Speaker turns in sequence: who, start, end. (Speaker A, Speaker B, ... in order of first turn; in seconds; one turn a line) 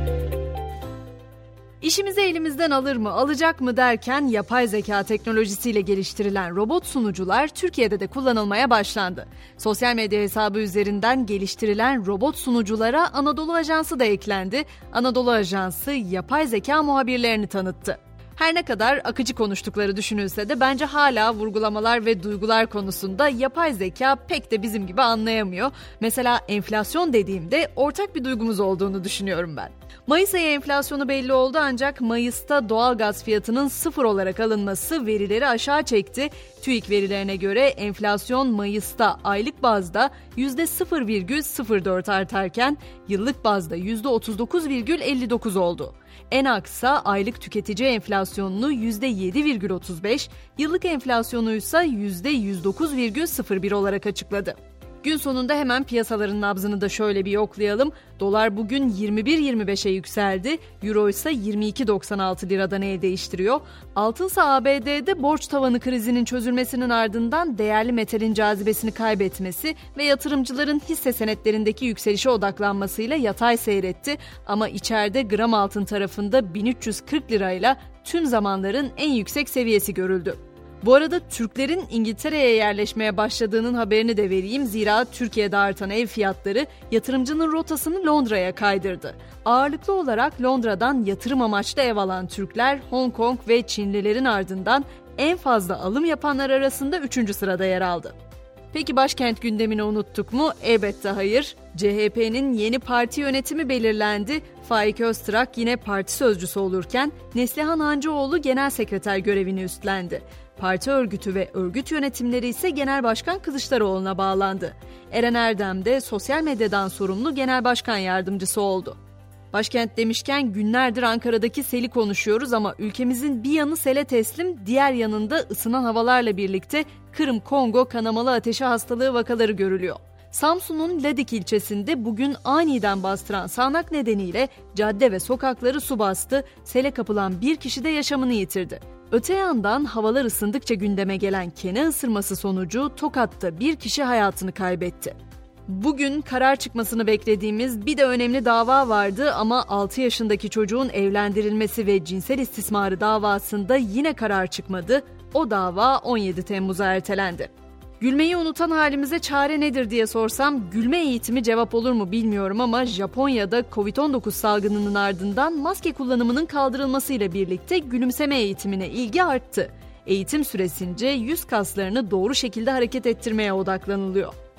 Speaker A: 1.8-98.1
Speaker A: 98.7-119.0
Speaker A: 119.5-145.1
Speaker A: 145.7-157.5
Speaker A: 158.0-174.3